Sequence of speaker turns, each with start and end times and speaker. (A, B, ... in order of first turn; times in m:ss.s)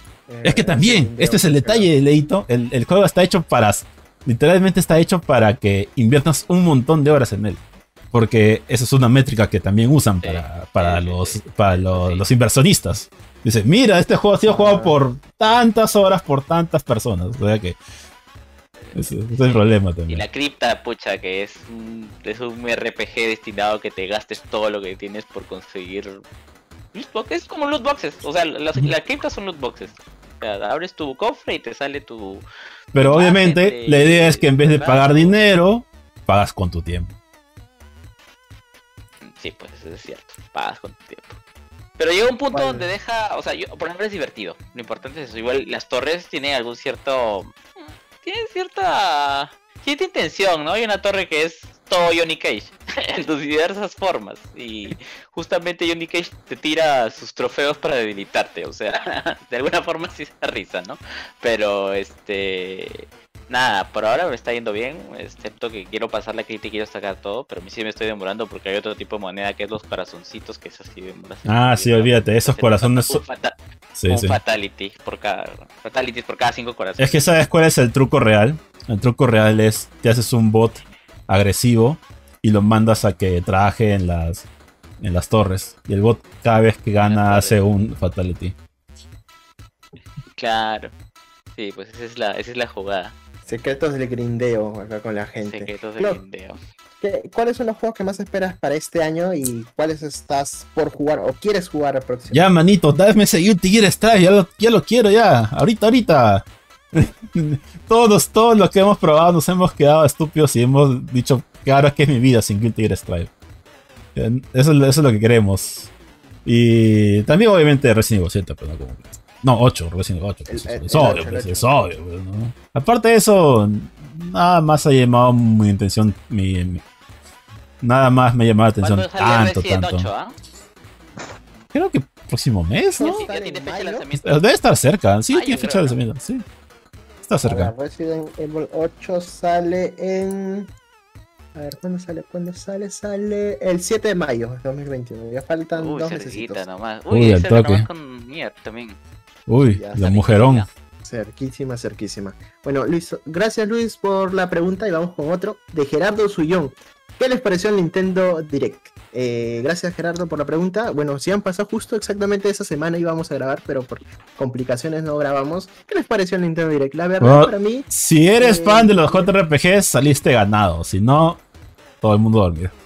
0:00.3-0:01.9 A
0:00.4-0:07.6 B
0:08.1-0:17.8 B
0:10.2-0:12.2 C
0:14.4-0:15.0 A
0:18.8-0:26.2 C
0:18.9-0:20.2 B
0:26.9-0:32.4 C
0:32.9-0:37.1 B
0:33.0-0:35.4 C
0:39.2-0:41.4 C
0:42.0-1:13.6 C
0:42.5-0:42.9 A
1:11.5-1:13.2 B
1:14.0-1:14.4 B
1:14.1-1:17.2 C
1:17.0-1:24.5 B
1:25.0-1:28.6 B
1:27.0-1:27.6 C
1:30.4-1:30.9 C
1:31.6-1:33.2 C
1:33.4-1:36.2 A
1:35.4-1:36.6 C
1:37.0-1:42.5 A
1:42.3-1:53.3 B
1:54.2-1:55.9 B
1:56.4-2:06.8 B
2:00.5-2:01.7 A
2:07.8-2:10.1 B
2:08.8-2:10.4 C
2:11.7-2:13.3 B
2:12.9-2:14.1 A
2:13.0-2:14.4 C
2:14.2-2:16.4 B
2:15.3-2:16.0 C
2:17.2-2:17.7 B
2:17.4-2:20.7 A
2:21.6-2:26.6 A
2:25.7-2:29.0 C
2:27.1-2:27.9 B
2:29.5-2:30.7 B
2:29.6-2:30.1 A
2:29.9-2:30.7 C
2:31.0-2:49.3 A
2:47.2-2:51.4 B
2:52.0-2:52.7 B